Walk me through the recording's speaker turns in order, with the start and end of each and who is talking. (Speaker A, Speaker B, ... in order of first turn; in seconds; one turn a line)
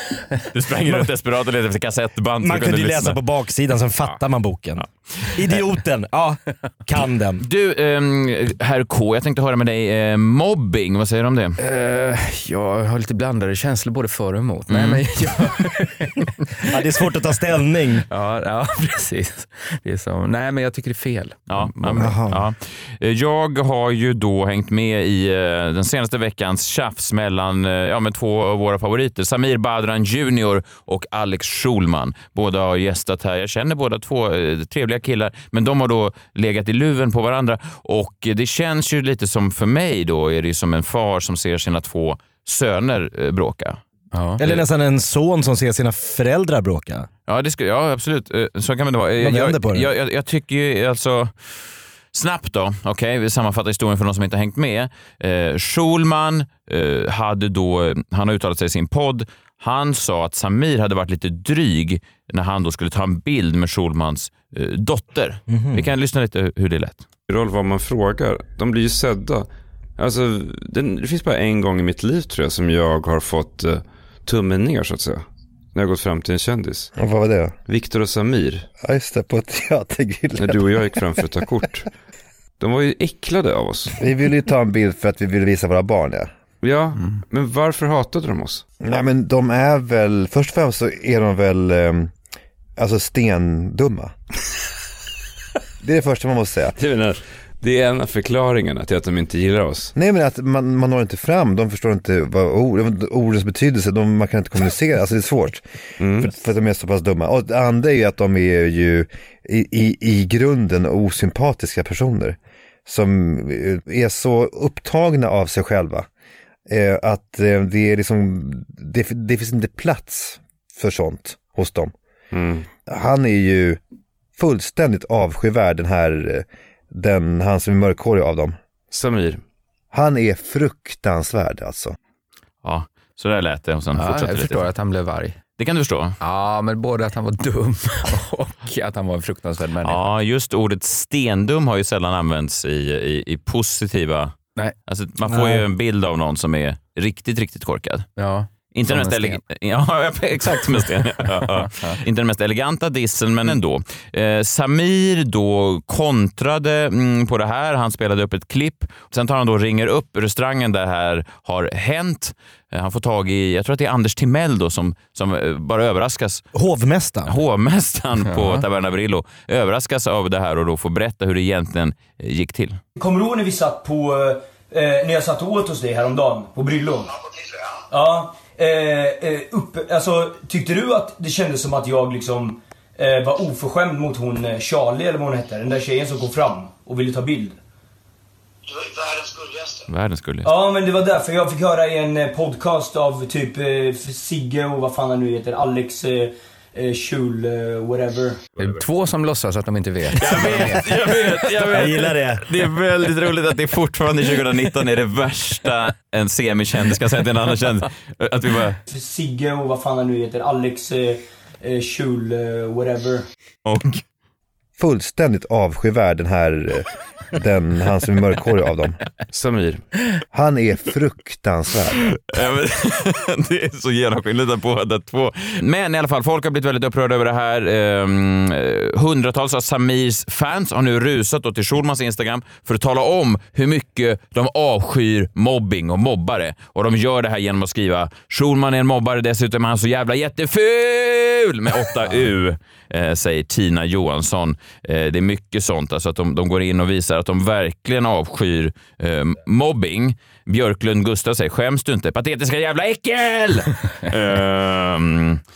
Speaker A: 0.5-3.2
Speaker B: 2.4-7.4
Speaker A: 7.4-11.6
Speaker C: 11.6-16.8
Speaker A: 14.7-15.0
Speaker B: 16.7-18.0
Speaker C: 18.1-22.1
Speaker A: 21.5-43.8
Speaker B: 22.0-22.4
Speaker C: 44.1-44.4
Speaker B: 44.4-47.1
Speaker A: 47.3-67.0
Speaker B: 49.2-49.9
Speaker B: 65.5-65.9
Speaker D: 67.3-76.9
Speaker E: 77.0-77.5
Speaker D: 77.7-78.7
Speaker E: 78.8-80.6
Speaker D: 80.4-81.9
Speaker D: 82.6-83.9
Speaker E: 84.0-86.3
Speaker D: 86.6-88.6
Speaker E: 88.8-92.1
Speaker E: 92.8-94.1
Speaker E: 95.8-96.7
Speaker D: 96.8-99.9
Speaker E: 100.0-105.6
Speaker D: 106.0-106.3
Speaker E: 106.2-116.1
Speaker E: 116.7-121.9
Speaker D: 122.3-122.6
Speaker E: 122.9-123.8
Speaker E: 124.3-128.6
Speaker D: 128.9-129.4
Speaker E: 129.9-131.9
Speaker A: 132.6-134.7
Speaker C: 133.9-135.4
Speaker A: 135.6-136.2
Speaker C: 136.2-140.0
Speaker A: 139.8-144.3
Speaker A: 144.9-148.1
Speaker B: 145.3-145.6
Speaker C: 148.2-149.4
Speaker A: 148.7-166.4
Speaker C: 150.5-152.0
Speaker B: 166.5-167.3
Speaker A: 167.3-172.8
Speaker C: 168.2-168.6
Speaker F: 173.0-177.2
Speaker F: 177.9-187.6
Speaker F: 189.1-189.5
Speaker A: 189.9-190.5
Speaker F: 190.4-198.4
Speaker C: 198.6-200.9
Speaker A: 200.1-208.8
Speaker B: 201.7-202.4
Speaker F: 208.9-213.2
Speaker A: 213.6-214.0
Speaker E: 214.8-219.0
Speaker D: 219.3-219.8
Speaker E: 220.3-222.1
Speaker A: 222.3-255.4